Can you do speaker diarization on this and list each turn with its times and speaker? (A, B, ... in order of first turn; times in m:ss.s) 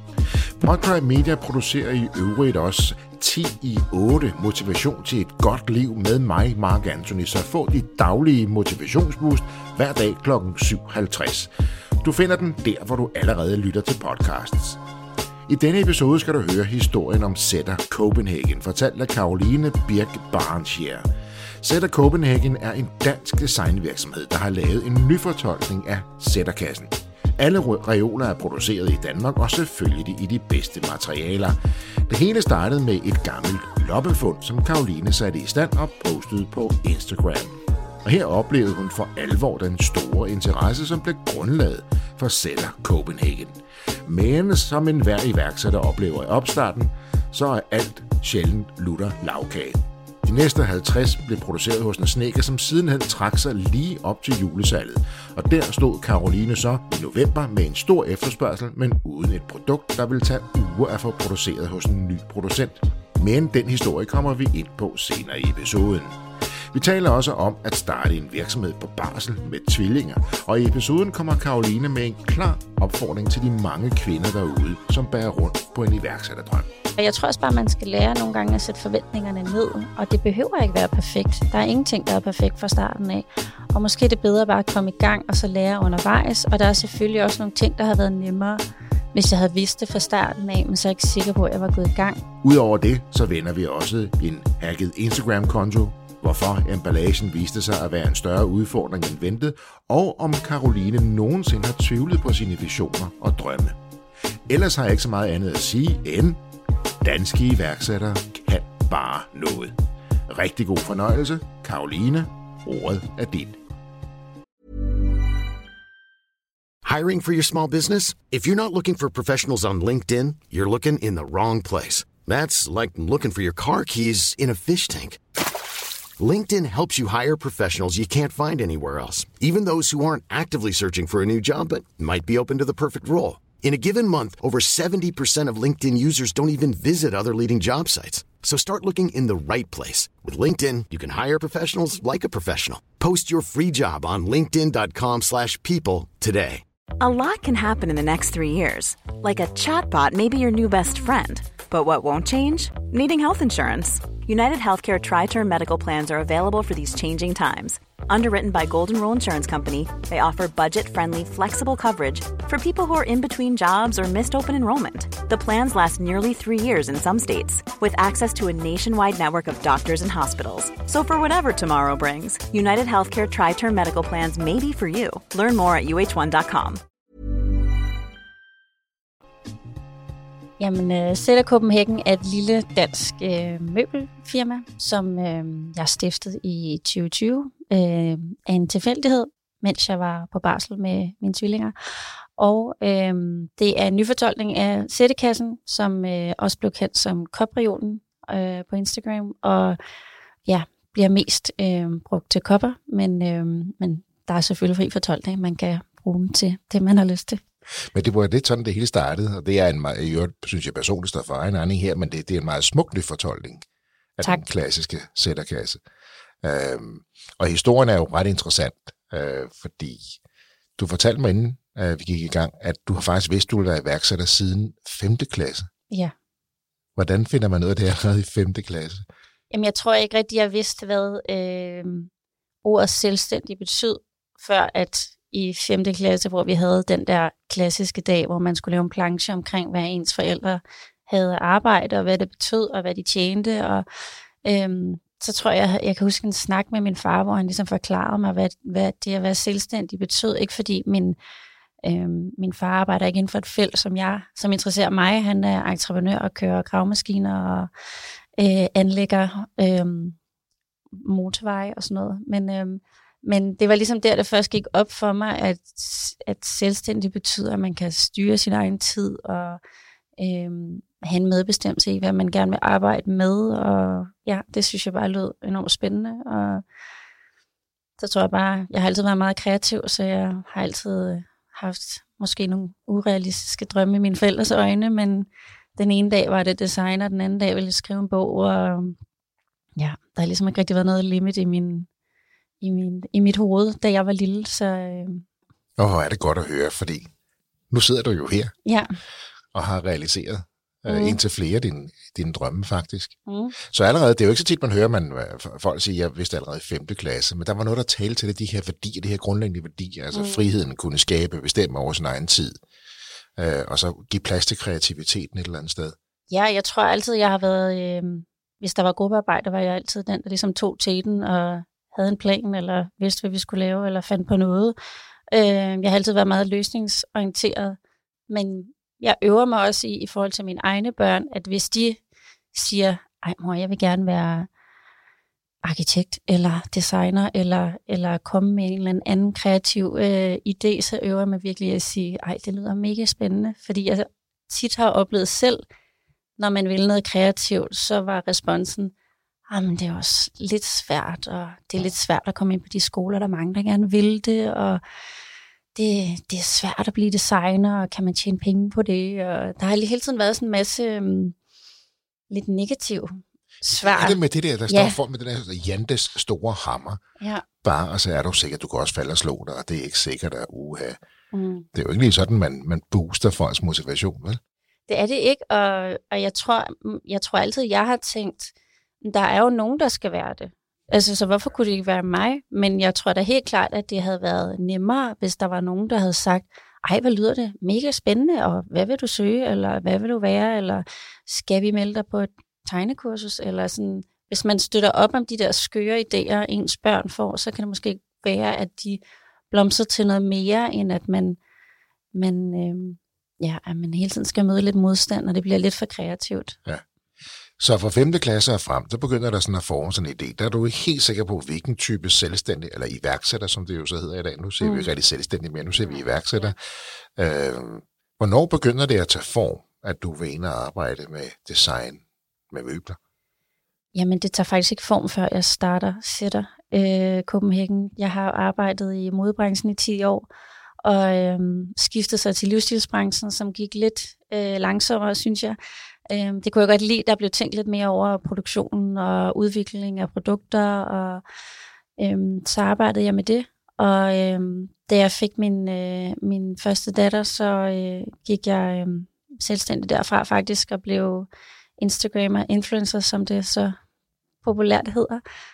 0:00.6-0:11.5 A
0:12.0-0:14.8 A
0:15.5-0:21.1 A
0:21.6-0:31.6 A
0:32.1-1:06.2 A
1:06.7-1:16.7 A
1:17.0-1:28.6 B
1:29.1-1:32.2 B
1:32.4-1:43.8 A
1:44.5-1:46.4 A
1:47.0-1:53.6 A
1:56.8-2:05.2 C
2:06.2-2:26.6 C
2:27.0-2:56.8 D
3:00.6-3:11.8 B
3:12.4-3:19.8 B
3:20.5-3:27.4 B
3:27.8-3:33.6 A
3:34.2-3:35.8 A
3:36.4-3:40.2 A
3:40.8-3:45.7 A
3:47.0-3:49.0 A
3:49.5-3:52.1 B
3:52.6-4:03.8 B
4:04.4-4:11.2 B
4:11.8-4:17.7 B
4:18.4-4:20.2 B
4:20.9-4:29.6 B
4:30.2-4:36.6 B
4:38.0-4:49.0 B
4:49.8-4:51.9 B
4:52.6-4:55.3 B
4:55.8-4:57.1 A
4:57.7-4:58.5 A
4:58.6-4:59.0 B
4:59.5-5:12.6 A
5:00.9-5:01.2 B
5:03.3-5:03.5 B
5:10.1-5:10.5 B
5:13.4-5:16.0 A
5:16.3-5:24.8 B
5:25.3-5:27.8 B
5:28.3-5:32.0 B
5:32.5-5:34.5 B
5:35.6-5:45.6 B
5:46.4-5:48.9 B
5:49.5-5:54.8 B
5:55.8-6:01.4 B
6:02.3-6:05.0 B
6:03.7-6:07.0 A
6:07.6-6:11.0 A
6:11.3-6:11.7 B
6:11.7-6:14.4 A
6:14.9-6:41.4 B
6:42.1-6:46.6 B
6:47.6-7:03.0 A
6:54.6-6:54.9 B
7:03.9-7:10.3 B
7:10.8-7:15.6 B
7:16.1-7:21.2 B
7:22.0-7:33.8 B
7:34.4-7:35.2 B